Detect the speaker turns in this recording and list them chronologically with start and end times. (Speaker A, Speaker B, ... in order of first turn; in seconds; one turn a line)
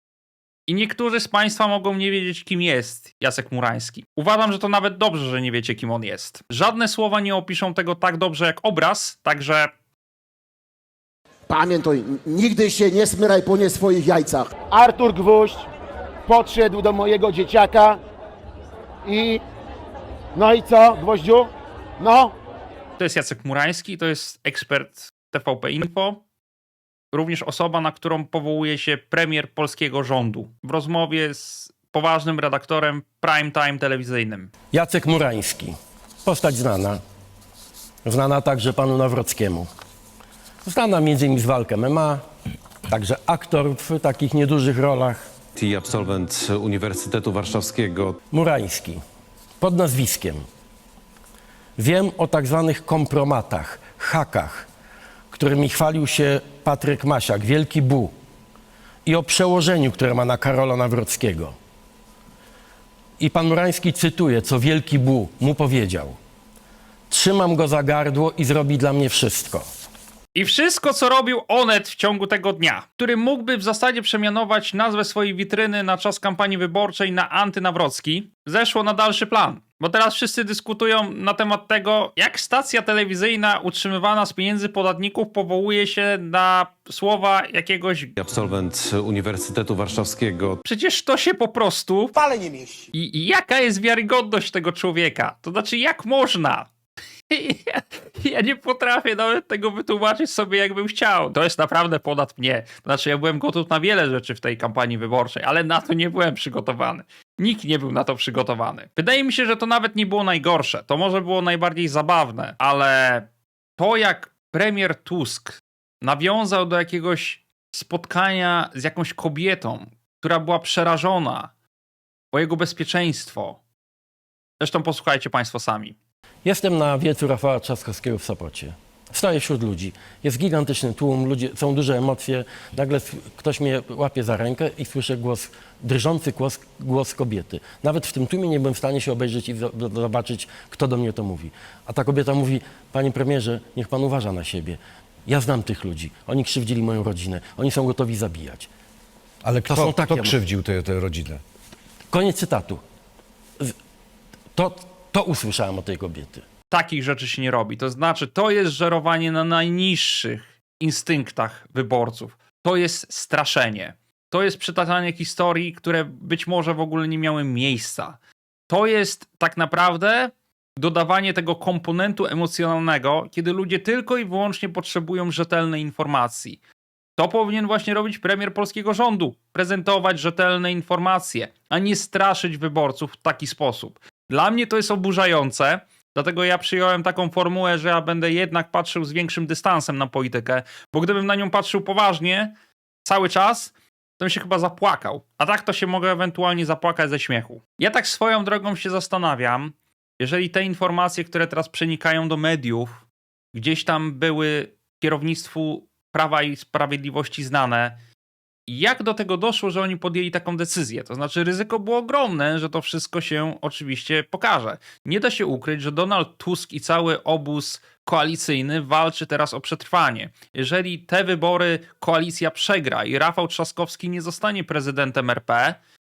Speaker A: 0.7-9.7
Speaker B: 11.5-14.6
Speaker C: 14.7-15.7
Speaker C: 16.3-18.0
Speaker C: 19.1-19.4
Speaker C: 20.4-22.4
Speaker A: 23.0-26.2
Speaker A: 27.1-34.5
Speaker D: 34.7-37.0
Speaker D: 38.0-39.7
Speaker D: 40.6-42.2
Speaker D: 42.9-45.3
Speaker E: 45.5-48.2
Speaker D: 48.3-49.0
Speaker D: 49.6-50.5
Speaker D: 51.8-54.7
Speaker D: 55.3-58.1
Speaker D: 59.1-61.5
Speaker D: 63.2-66.2
Speaker D: 67.1-69.7
Speaker A: 70.3-88.2
Speaker E: 88.2-90.6
Speaker A: 90.7-92.3
Speaker A: 92.9-96.7
Speaker A: 97.3-121.5
Speaker A: 122.3-123.6
Speaker A: 124.6-126.0
Speaker D: 126.5-148.7
Speaker F: 149.4-151.4
Speaker D: 149.7-150.4
Speaker D: 152.1-152.8
Speaker D: 154.5-156.4
Speaker A: 156.7-168.2
Speaker A: 168.7-176.6
Speaker A: 177.2-192.5
Speaker A: 193.1-208.0
Speaker A: 208.7-225.8